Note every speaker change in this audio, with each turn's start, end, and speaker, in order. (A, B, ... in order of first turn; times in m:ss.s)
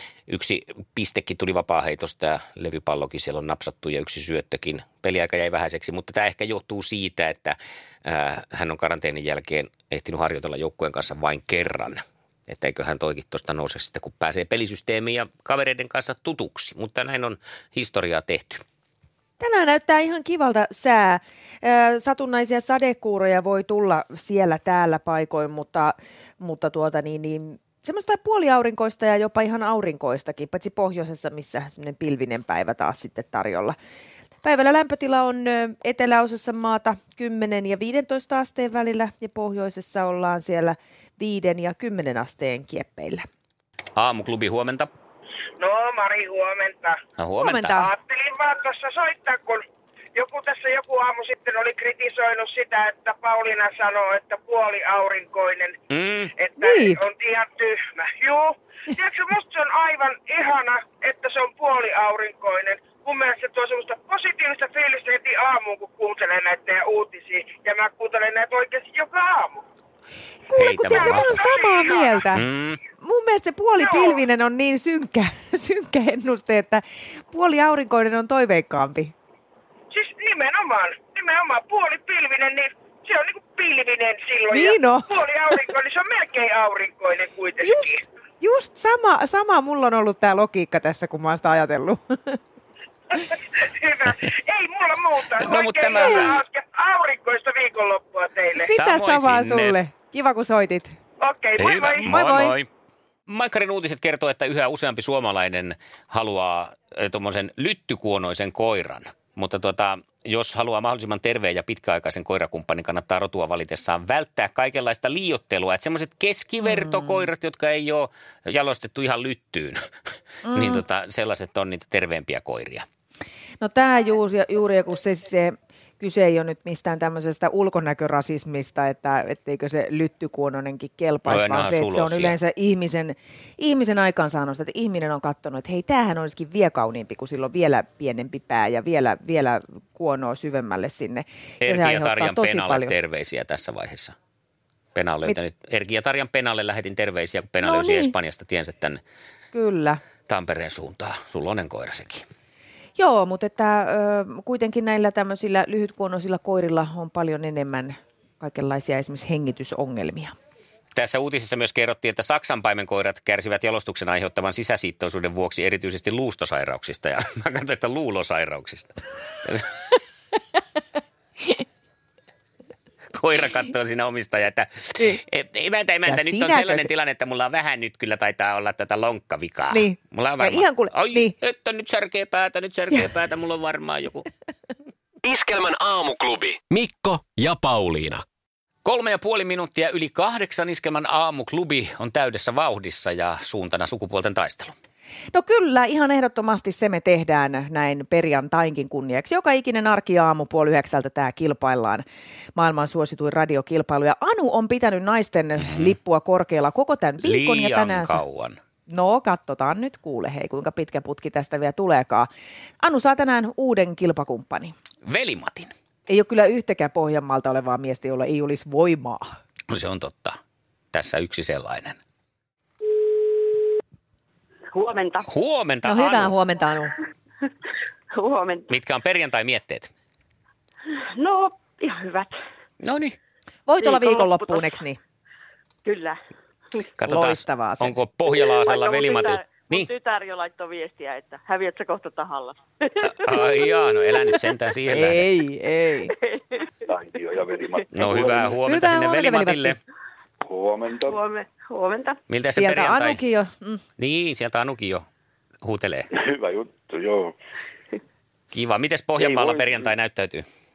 0:00.3-0:18.6 A
0:19.4-0:33.7 B
0:34.4-0:43.2 B
0:43.9-0:44.9 A
0:45.6-0:47.0 C
0:47.2-0:47.9 A
0:47.4-0:47.9 B
0:47.8-0:49.6 C
0:50.1-0:55.8 C
0:55.9-0:56.3 A
0:56.4-1:09.6 C
0:56.6-0:57.0 B
1:10.5-1:12.4 B
1:10.6-1:11.4 A
1:10.9-1:12.2 C
1:12.3-1:12.8 A
1:13.0-1:19.1 B
1:13.8-1:14.2 C
1:19.9-1:27.9 C
1:24.5-1:25.6 B
1:27.6-1:32.4 B
1:33.5-1:38.7 C
1:35.3-1:36.4 A
1:35.9-1:36.3 B
1:38.6-1:40.9 B
1:38.7-1:39.8 A
1:41.2-1:42.0 C
1:41.5-1:42.7 A
1:42.0-1:42.5 B
1:43.3-1:59.8 A
1:56.6-1:57.3 B
2:00.4-2:00.8 B
2:00.5-2:02.8 A
2:03.6-2:22.9 B
2:11.2-2:12.4 A
2:21.6-2:24.2 A
2:24.9-2:29.0 A
2:27.6-2:28.1 B
2:29.5-2:30.0 B
2:30.3-2:32.2 A
2:33.0-2:40.3 B
2:40.9-2:49.7 A
2:53.1-3:04.3 A
2:56.0-2:56.9 B
2:59.7-3:01.3 B
3:05.2-3:08.2 D
3:08.8-3:14.7 A
3:15.3-3:28.2 B
3:25.6-3:25.9 A
3:27.2-3:28.6 A
3:28.9-3:32.3 B
3:32.8-3:34.7 B
3:35.0-3:35.7 A
3:36.1-3:39.2 B
3:39.7-3:40.4 A
3:40.9-3:42.0 A
3:44.7-3:45.2 E
3:45.2-3:46.3 A
3:45.8-3:47.0 B
3:48.2-3:48.7 E
3:48.7-3:49.9 A
3:51.1-3:52.3 E
3:52.8-3:53.2 A
3:53.7-3:55.0 B
3:53.8-3:54.6 E
3:55.8-3:56.2 E
3:57.0-3:59.9 A
3:57.0-3:58.0 B
3:58.6-4:03.5 E
4:03.0-4:05.3 A
4:04.9-4:06.1 B
4:06.2-4:06.7 E
4:06.9-4:08.6 F
4:07.6-4:07.8 E
4:07.9-4:09.8 A
4:08.6-4:09.8 B
4:10.4-4:11.2 F
4:11.0-4:12.2 E
4:12.3-4:13.2 A
4:12.5-4:13.8 B
4:14.0-4:15.1 A
4:15.6-4:16.1 A
4:16.2-4:17.3 F
4:18.5-4:20.4 A
4:19.2-4:19.8 F